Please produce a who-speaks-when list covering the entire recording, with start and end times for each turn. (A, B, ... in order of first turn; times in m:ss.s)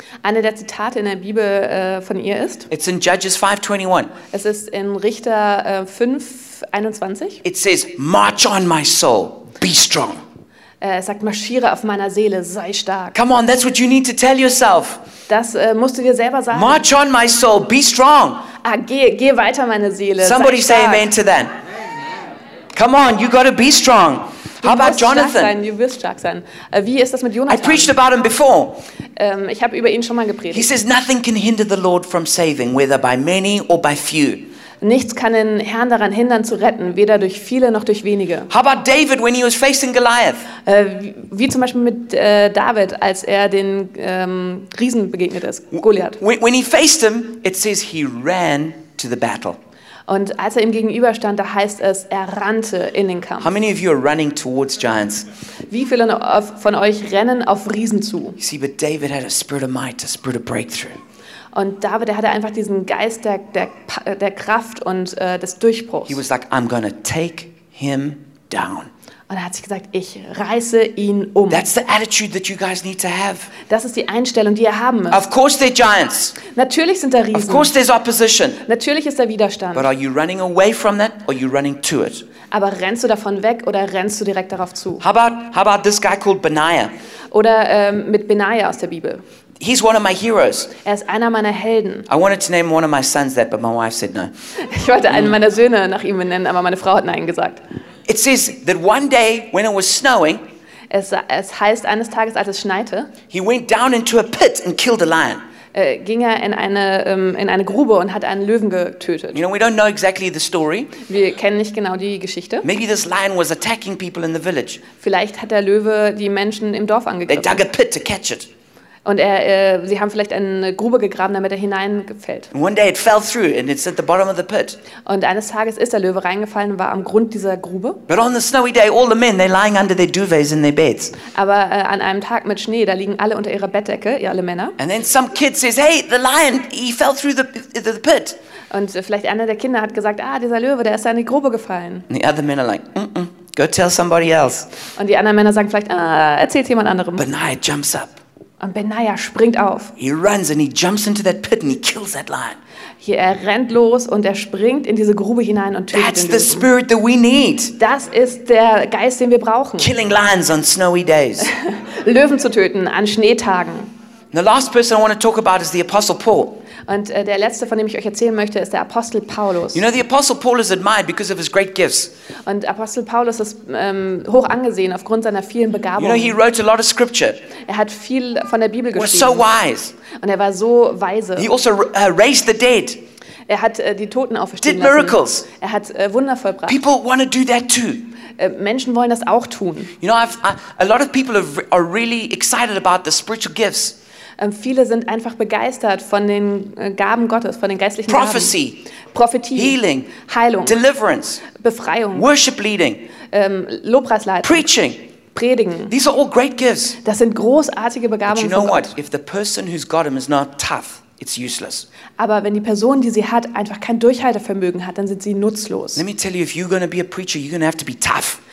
0:00.2-0:02.7 A
0:02.7-0:04.1 B
0:04.3-0:07.4 A
0:07.4-0:10.2 B
0:10.8-0:13.2 A
0:13.1-0:15.0 B
0:15.3-0:16.8 A
0:16.5-0:18.5 B
0:18.6-0:21.1 A
0:20.2-0:21.5 B
0:22.7-0:25.6 B
0:24.6-0:27.9 A
0:27.5-0:28.8 B
0:29.2-0:30.7 A
0:30.5-0:34.5 B
0:34.8-0:38.5 A
0:38.5-0:40.5 B
0:40.6-0:46.2 A
0:45.8-0:49.6 B
0:50.1-0:53.5 A
0:53.4-0:55.3 B
0:55.7-0:58.4 A
0:58.4-1:01.0 B
1:01.5-1:06.2 A
1:06.1-1:08.9 B
1:09.3-1:11.6 A
1:11.5-1:13.5 B
1:13.6-1:15.2 A
1:15.1-1:16.4 B
1:16.4-1:17.7 A
1:17.3-1:18.6 B
1:18.6-1:19.9 A
1:19.8-1:22.3 B
1:22.5-1:25.0 A
1:25.0-1:26.9 B
1:27.3-1:29.2 A
1:29.6-1:30.8 B
1:30.8-1:32.1 A
1:32.1-1:34.3 B
1:34.6-1:37.6 A
1:38.1-1:40.4 B
1:40.9-1:43.1 A
1:43.3-1:45.4 B
1:45.7-1:49.4 A
1:49.3-1:51.0 B
1:51.0-1:52.7 A
1:52.6-1:54.8 B
1:55.0-1:57.6 A
1:57.3-1:58.5 B
1:59.0-2:02.5 A
2:02.5-2:04.8 B
2:05.0-2:08.0 A
2:08.1-2:11.2 B
2:11.2-2:14.8 A
2:14.8-2:18.4 B
2:18.7-2:22.1 A
2:22.1-2:24.7 B
2:25.0-2:27.2 A
2:27.2-2:28.2 B
2:28.6-2:29.9 A
2:30.0-2:32.6 B
2:33.0-2:36.7 A
2:35.9-2:37.8 B
2:37.8-2:39.9 A
2:39.8-2:41.5 B
2:41.4-2:43.9 A
2:44.3-2:46.6 B
2:46.9-2:49.8 A
2:49.7-2:52.1 B
2:52.4-2:56.4 A
2:56.0-2:57.5 B
2:57.6-2:59.5 A
2:58.9-3:00.0 B
3:00.1-3:01.5 A
3:01.4-3:03.0 B
3:03.5-3:06.8 A
3:04.6-3:05.5 B
3:06.7-3:08.1 B
3:08.3-3:09.9 A
3:10.0-3:14.0 B
3:14.4-3:20.8 A
3:18.1-3:18.9 B
3:19.6-3:20.1 B
3:20.6-3:21.5 B
3:21.5-3:22.3 A
3:22.1-3:23.1 B
3:23.3-3:24.7 A
3:24.4-3:25.0 B
3:25.3-3:25.9 A
3:25.9-3:27.0 B
3:27.0-3:28.9 A
3:28.3-3:31.9 B
3:32.2-3:36.0 A
3:36.0-3:38.4 B